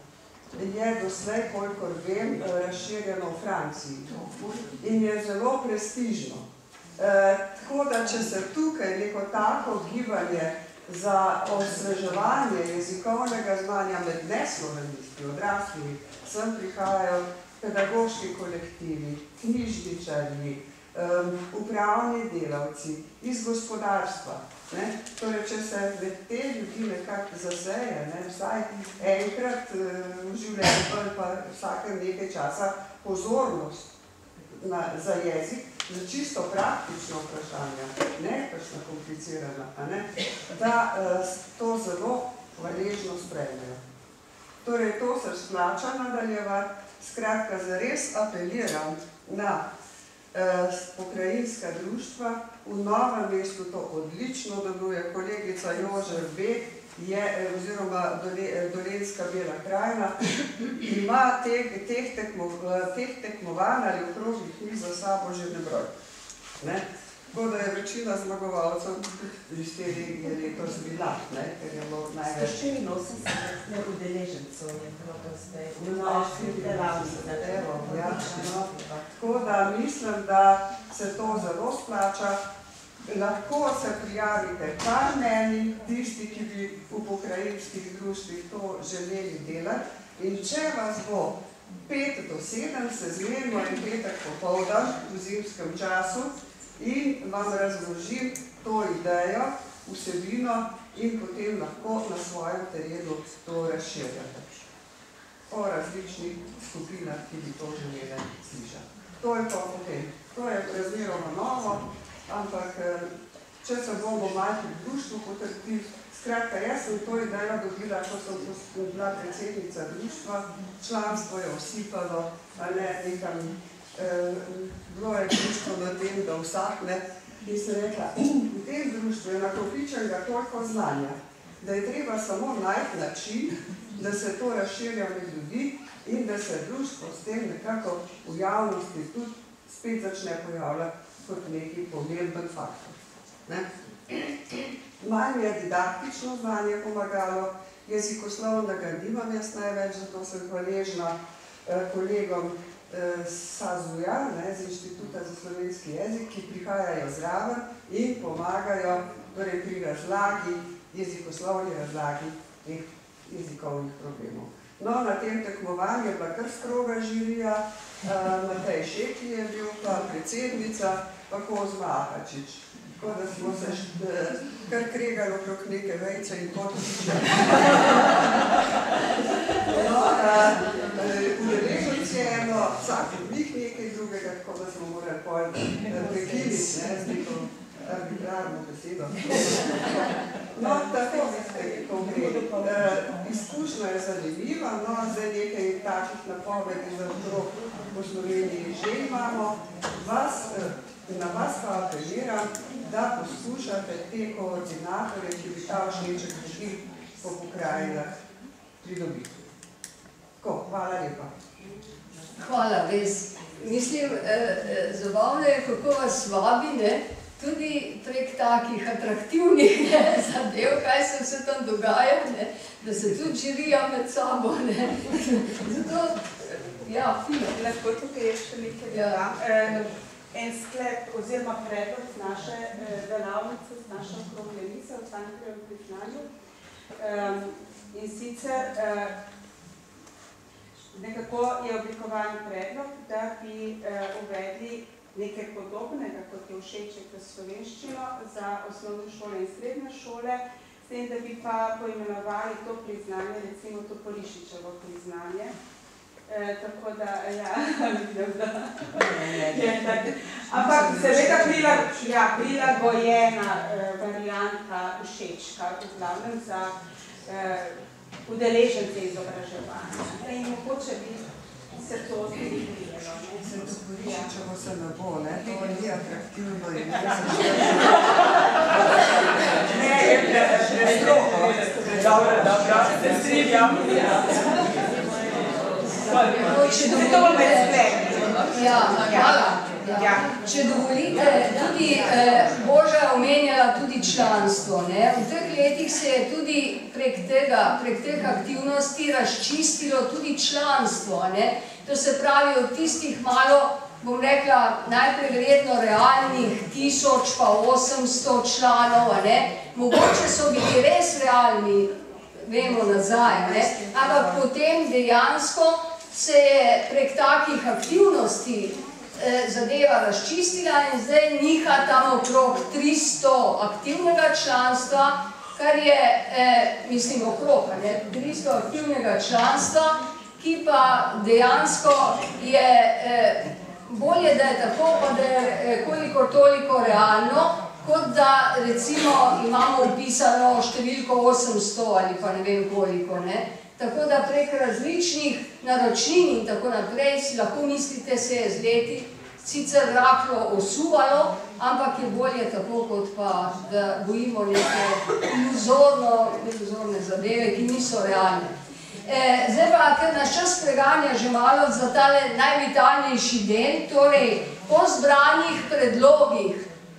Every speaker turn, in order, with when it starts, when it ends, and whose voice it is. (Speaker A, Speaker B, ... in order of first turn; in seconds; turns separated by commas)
Speaker A: 0.5-33.9, Speaker A: 34.5-43.8, Speaker A: 44.6-49.6, Speaker A: 50.3-65.9, Speaker A: 66.6-72.7, Speaker B: 72.9-74.7, Speaker C: 74.4-78.9, Speaker A: 75.7-82.4, Speaker A: 83.0-104.5, Speaker A: 105.5-178.2, Speaker A: 179.7-208.1, Speaker A: 208.8-209.5, Speaker A: 210.4-211.3, Speaker D: 212.4-227.5, Speaker B: 227.5-236.3, Speaker D: 228.9-229.2, Speaker B: 237.0-239.2, Speaker B: 240.9-255.5, Speaker B: 256.3-266.7, Speaker A: 258.9-259.9, Speaker A: 260.5-262.7, Speaker B: 267.3-274.3, Speaker A: 273.4-278.2, Speaker A: 279.6-283.6, Speaker C: 283.2-283.9, Speaker D: 286.2-287.8, Speaker B: 286.4-290.3, Speaker D: 288.5-311.9, Speaker D: 312.4-358.5, Speaker A: 313.1-314.5, Speaker D: 359.1-366.6